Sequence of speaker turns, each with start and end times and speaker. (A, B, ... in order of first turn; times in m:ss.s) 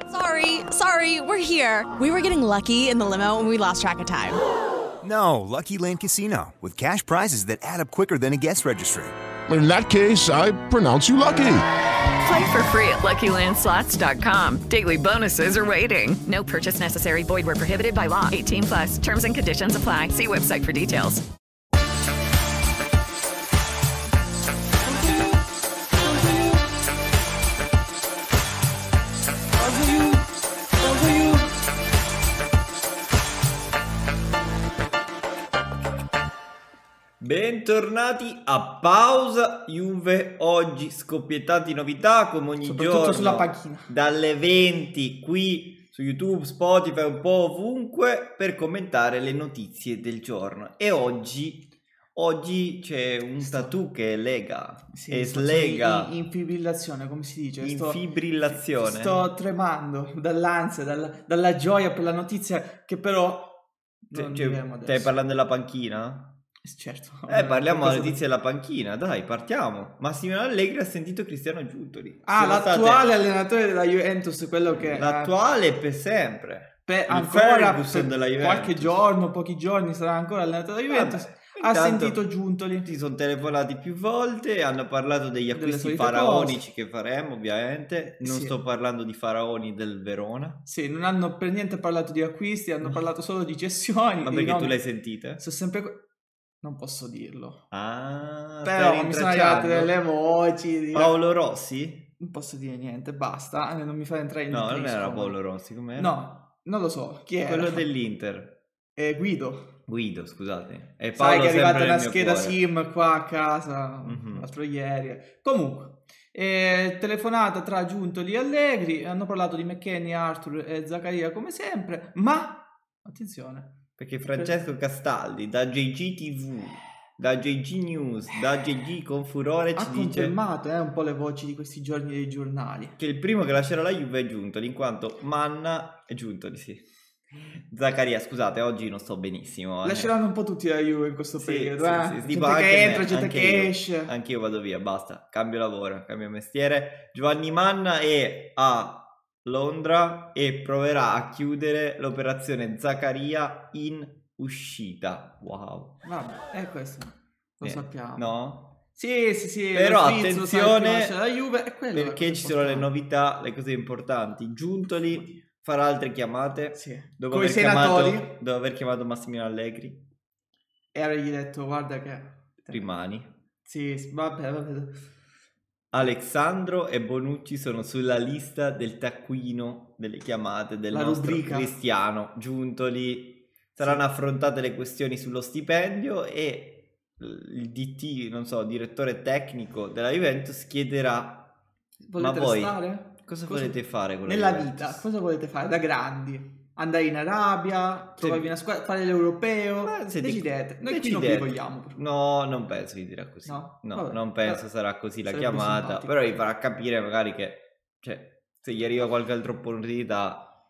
0:00.1-0:04.4 A
0:05.0-0:09.1 B
0:09.5-0:11.6 C
0:12.2-0:21.2 D
0:24.9-0:25.4 E
0:26.0-0:26.6 E
0:29.6-0:30.3 E
0:30.8-0:31.5 E
0:37.2-0:56.1 F
0:42.6-0:43.9 E
0:53.4-0:53.8 E
0:54.9-1:03.5 E
0:57.6-0:59.2 F
1:04.1-1:05.2 E
1:04.1-1:06.4 F
1:06.6-1:08.2 E
1:07.3-1:13.1 F
1:12.3-1:15.3 E
1:14.7-1:19.1 F
1:16.9-1:22.9 E
1:20.9-1:22.2 F
1:22.8-1:30.6 F
1:25.5-1:26.6 E
1:28.2-1:28.6 E
1:30.7-1:34.8 E
1:34.2-1:35.4 F
1:35.4-1:36.0 E
1:36.6-1:37.6 E
1:37.7-1:39.9 F
1:38.6-1:41.2 E
1:40.9-1:42.1 F
1:42.2-1:45.4 E
1:44.5-1:46.2 F
1:46.0-1:47.9 E
1:47.4-1:48.6 F
1:49.0-1:49.8 E
1:49.9-1:52.6 F
1:51.2-2:03.8 E
1:54.0-1:54.5 F
2:04.0-2:10.4 F
2:09.8-2:13.0 E
2:13.0-2:20.1 F
2:19.8-2:24.1 E
2:21.4-2:36.0 F
2:36.0-2:38.3 E
2:37.6-2:38.8 F
2:38.9-2:42.9 E
2:39.7-2:41.1 F
2:41.9-2:50.0 F
2:45.1-2:45.4 E
2:46.7-2:48.3 E
2:50.9-2:52.9 E
2:52.7-2:53.3 F
2:53.6-2:55.0 E
2:55.9-3:11.6 F
3:00.9-3:01.7 E
3:12.0-3:22.0 E
3:12.2-3:15.0 F
3:18.2-3:18.5 F
3:19.8-3:30.5 F
3:23.4-3:24.7 E
3:25.2-3:26.2 E